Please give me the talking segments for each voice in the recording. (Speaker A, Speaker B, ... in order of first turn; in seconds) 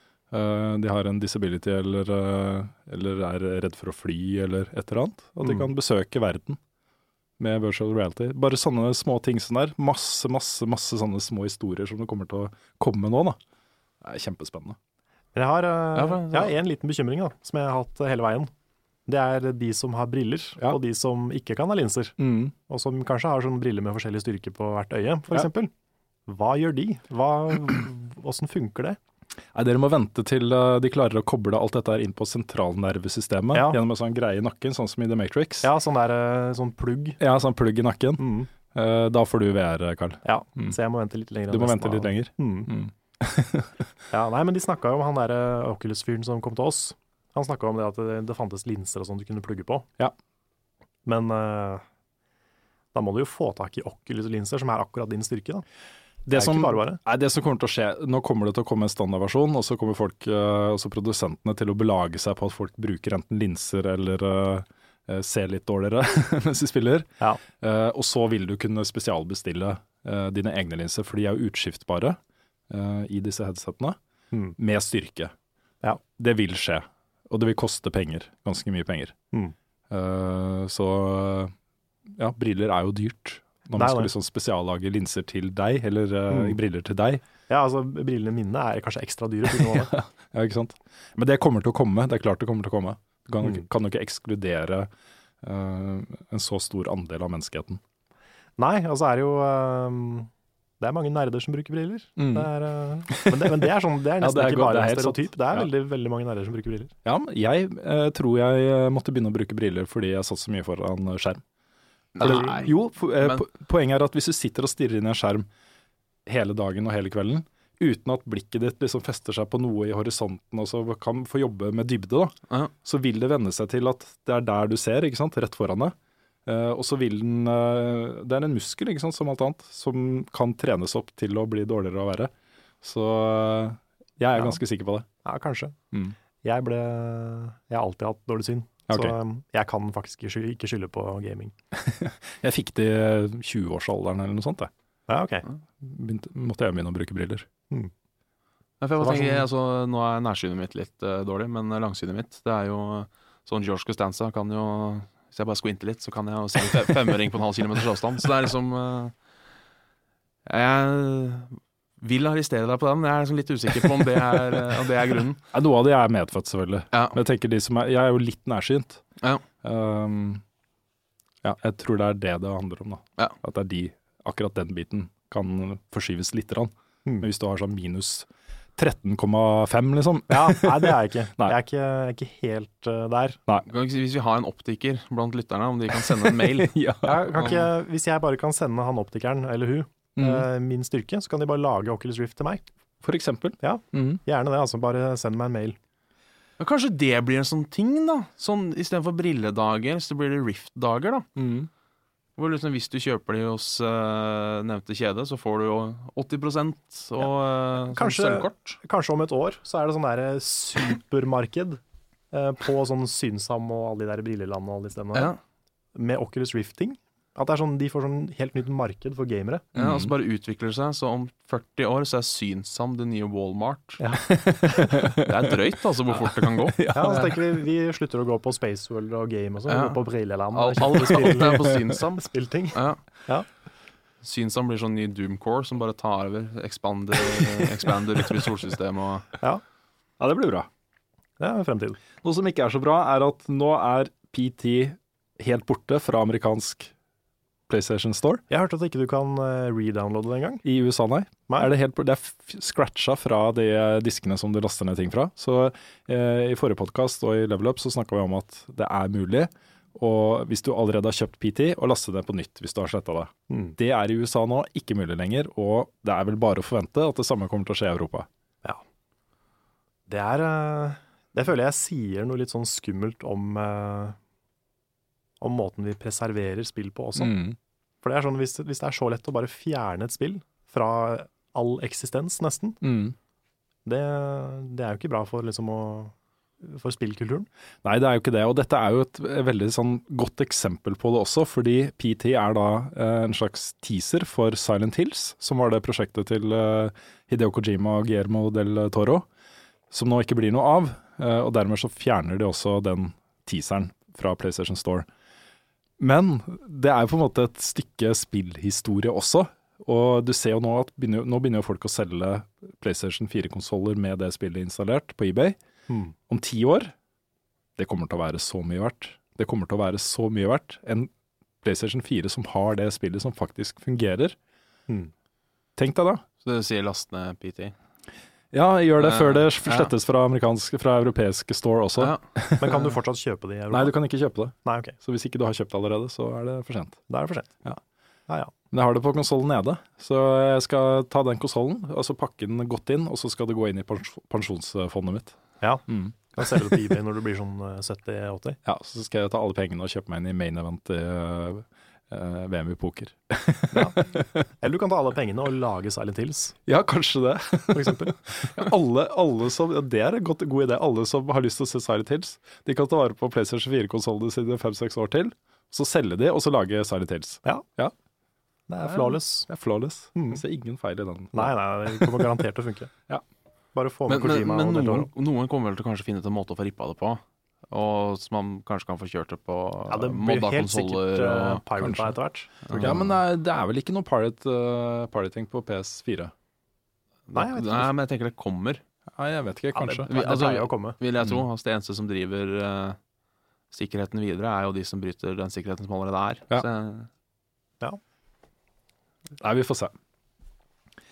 Speaker A: 0.3-6.6, 7.4-13.4, 14.0-14.8, 22.2-22.5, 29.5-35.7, 37.2-40.8, 41.5-43.8, 56.3-72.2, 72.7-74.0, 74.6-75.3, 76.2-79.2, 79.9-81.5, 82.1-87.2, 89.5-94.9, 95.4-97.8, 102.2-102.5, 103.1-105.7, 107.0-111.4, 112.2-115.5, 116.3-126.0, 126.5-135.1, 138.9-139.2, 141.7-144.7, 145.8-147.5, 165.5-169.0, 169.6-170.4, 171.4-181.6, 185.9-187.4, 190.2-190.5, 193.0-194.2, 201.4-201.7, 219.8-220.1, 224.3-225.6, 226.1-227.6, 231.0-232.0, 240.2-240.7, 242.2-246.9, 247.7-248.4, 250.6-268.3, 277.2-277.6, 282.8-283.2, 287.8-299.3, 299.9-305.1, 306.0-315.6, 316.3-316.9, 317.8-321.1, 321.6-324.4, 325.8-326.2, 328.5-332.9, 333.7-337.0, 338.7-346.8, 348.6-354.3, 356.7-367.9, 368.9-372.3, 381.8-382.1, 382.8-386.3, 389.2-390.1, 399.4-399.9
Speaker B: 15.3-18.5, 19.1-22.2, 22.7-25.7, 26.3-29.0, 33.5-33.8, 35.6-37.2, 38.2-38.5, 40.2-42.7, 44.1-49.9, 51.0-51.8, 52.9-55.6, 56.3-57.0, 83.7-84.1, 86.3-86.6, 87.5-89.9, 98.6-100.3, 100.8-106.9, 135.2-135.8, 136.4-141.5, 145.1-145.4, 149.0-149.5, 180.3-183.4, 187.0-192.6, 193.6-195.8, 207.9-211.8, 212.3-215.3, 215.9-219.7, 224.0-225.1, 226.9-233.5, 241.4-242.0, 248.5-250.6, 263.5-263.8, 270.1-274.2, 275.4-277.4, 278.0-282.8, 283.9-287.5, 315.9-316.1, 332.6-333.9, 334.6-335.0, 337.1-337.5, 345.6-348.6, 353.7-356.6, 357.7-358.1, 368.7-369.5, 370.2-370.4, 371.3-372.9, 373.8-375.1, 379.9-383.0, 387.3-387.9, 389.8-391.0
Speaker C: 15.9-16.5, 112.2-113.4, 148.8-159.1, 160.5-165.4, 166.9-167.2, 183.7-186.7, 187.4-187.7, 196.6-201.3, 202.4-208.8, 219.8-224.0, 225.2-226.9, 229.7-230.0, 230.5-233.0, 234.2-239.3, 326.4-327.8, 329.0-329.9, 374.1-381.6, 382.7-383.0, 387.3-388.8, 390.1-393.0, 393.7-397.1